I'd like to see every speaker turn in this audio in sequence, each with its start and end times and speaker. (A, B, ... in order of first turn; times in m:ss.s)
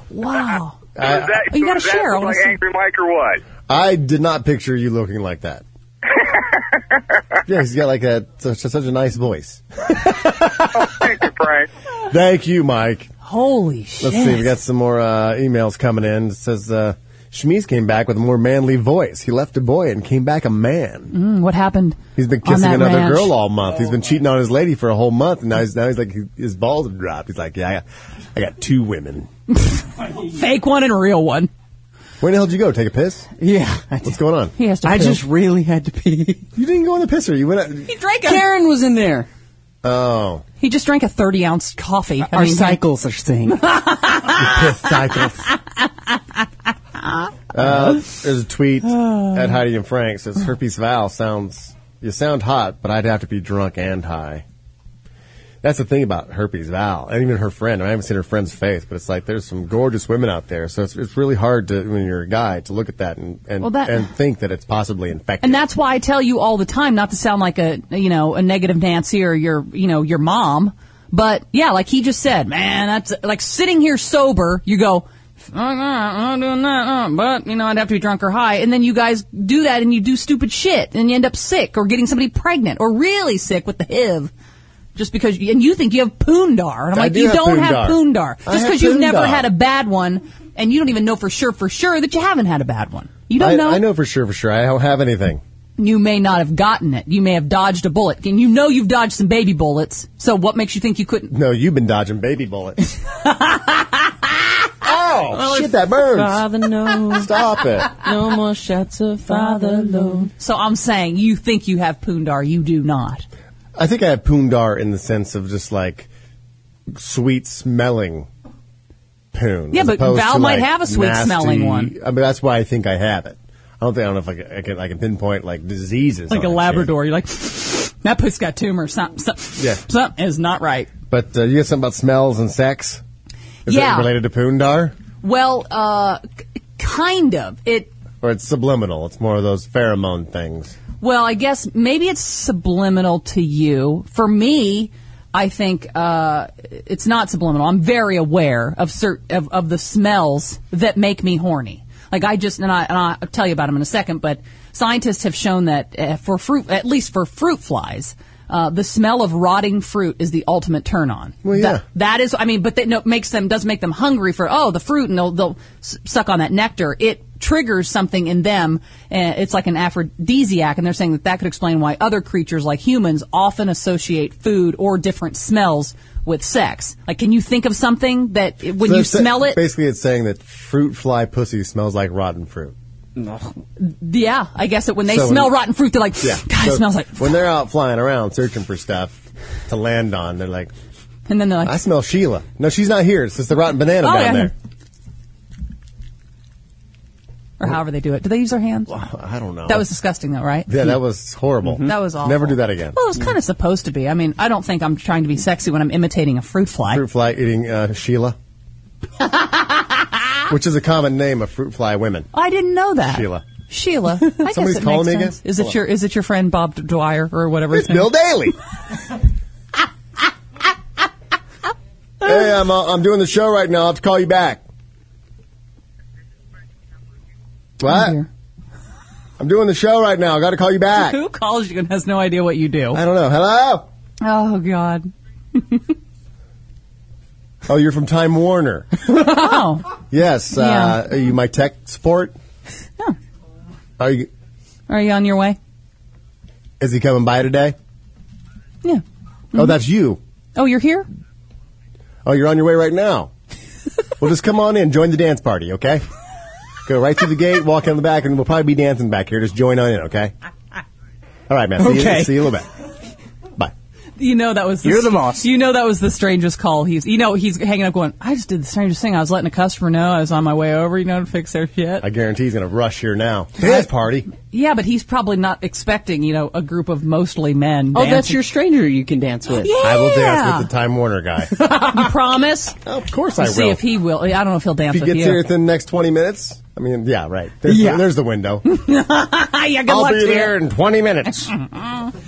0:00.1-0:02.6 A
0:01.0-0:01.4 B
0:01.0-0:03.4 C
0:03.7-0:05.6 B
0:06.1-0:07.0 C
0:07.4-0:11.1 B
0:10.8-0:11.7 C
0:12.1-0:13.1 B
0:13.2-0:14.5 A
0:14.0-0:21.1 B
0:21.1-0:23.3 A
0:22.2-0:27.8 B
0:28.3-0:29.3 B
0:29.6-0:31.5 A
0:32.2-0:33.3 B
0:33.4-0:34.2 D
0:34.0-0:34.5 B
0:34.6-0:35.2 A
0:34.8-0:36.4 D
0:36.6-0:37.9 B
0:37.9-0:38.4 A
0:38.2-0:39.3 D
0:39.8-0:40.4 B
0:40.6-0:42.8 A
0:42.2-0:43.7 D
0:43.6-0:45.0 A
0:44.3-0:45.5 B
0:47.5-0:54.4 B
0:55.6-1:05.6 B
1:03.6-1:04.1 A
1:05.4-1:24.3 A
1:25.0-1:33.8 A
1:26.9-1:29.5 B
1:33.4-1:35.4 B
1:35.8-1:41.3 A
1:41.3-1:42.8 B
1:43.2-1:44.3 A
1:44.8-1:46.5 B
1:45.4-1:47.3 D
1:47.0-1:48.0 B
1:47.9-1:50.3 D
1:49.3-1:53.2 A
1:53.8-1:56.1 B
1:56.9-1:58.3 B
1:59.3-2:06.9 B
1:59.7-2:01.9 A
2:06.3-2:10.9 A
2:11.1-2:13.0 B
2:13.6-2:14.9 B
2:13.7-2:14.1 A
2:15.2-2:16.2 A
2:16.8-2:17.9 A
2:18.2-2:20.8 B
2:21.0-2:59.6 A
2:41.4-2:41.8 B
2:58.8-3:02.7 B
3:03.2-3:03.5 D
3:03.8-3:07.3 A
3:05.0-3:05.6 B
3:06.2-3:10.7 B
3:11.3-3:11.8 A
3:11.6-3:14.5 B
3:14.0-3:14.5 A
3:17.6-3:19.0 A
3:18.9-3:19.8 B
3:19.7-3:20.7 A
3:20.7-3:23.0 B
3:21.8-3:27.0 A
3:26.9-3:28.4 B
3:29.2-3:29.8 A
3:30.5-3:32.3 B
3:32.3-3:38.1 A
3:33.0-3:33.4 B
3:34.4-3:35.7 B
3:37.7-3:38.5 B
3:42.2-3:44.6 B
3:47.8-3:48.2 B
3:47.9-3:48.3 A
3:49.4-3:51.2 B
3:50.9-3:53.0 A
3:52.9-3:53.9 B
3:54.2-3:55.8 A
3:57.7-3:58.9 B
3:59.1-3:59.9 A
4:00.0-4:02.4 B
4:00.6-4:01.0 A
4:04.0-4:04.3 B
4:04.9-4:05.6 A
4:06.8-4:07.8 B
4:09.5-4:10.2 B
4:10.6-4:11.1 A
4:12.2-4:13.3 B
4:14.2-4:16.0 B
4:16.8-4:20.3 B
4:21.5-4:22.7 B
4:21.8-4:22.4 D
4:24.2-4:32.0 A
4:24.8-4:25.4 D
4:32.0-4:34.3 B
4:33.6-4:38.4 A
4:37.9-4:39.7 D
4:39.5-4:40.7 A
4:39.8-4:41.5 B
4:41.6-4:42.0 D
4:41.6-4:42.8 A
4:42.8-4:43.8 B
4:43.4-4:45.4 A
4:44.9-4:48.6 B
4:47.6-4:48.0 D
4:48.6-4:50.6 A
4:49.9-4:51.5 B
4:51.7-4:52.1 A